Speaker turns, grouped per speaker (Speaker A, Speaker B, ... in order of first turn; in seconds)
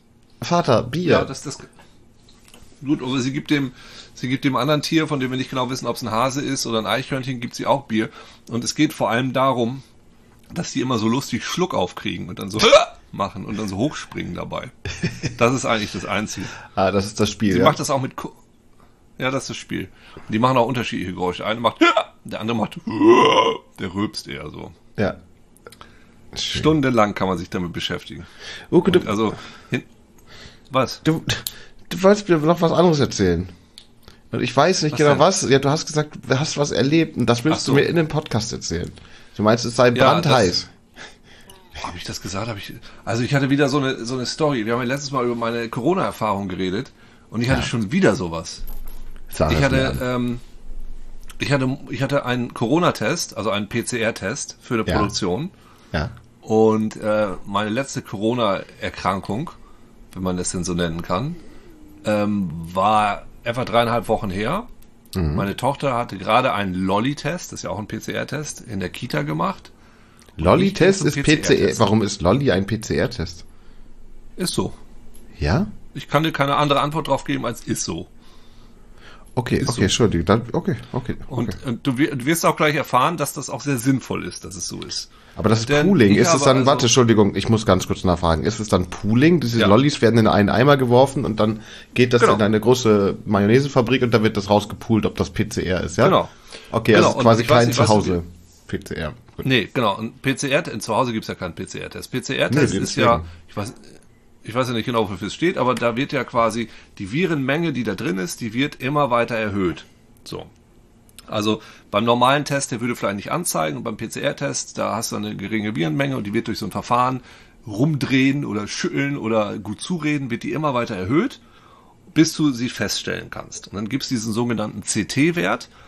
Speaker A: 0.4-1.3, 16.6-17.8, 26.4-26.7, 28.7-29.2, 31.0-33.5, 34.3-40.7, 49.3-50.0, 54.9-55.1, 65.2-65.5, 70.4-73.4, 75.4-75.7, 79.4-81.6, 85.4-96.2, 96.7-99.5, 102.5-103.2
Speaker B: 1.0-1.7, 2.8-9.8, 10.5-14.7, 15.2-16.6, 17.5-18.4, 19.2-24.8, 26.5-28.3, 28.9-29.9, 30.7-31.0, 34.9-35.2, 37.5-37.9, 39.9-40.6, 41.8-48.6, 49.5-50.4, 51.4-55.5, 56.4-59.5, 60.1-61.4, 62.0-64.7, 65.3-69.7, 70.4-71.9, 74.4-74.8, 75.9-78.1, 79.6-79.9, 81.3-85.1, 85.6-86.9, 96.0-96.3, 96.9-98.2, 99.4-110.5, 111.3-121.4, 122.1-125.7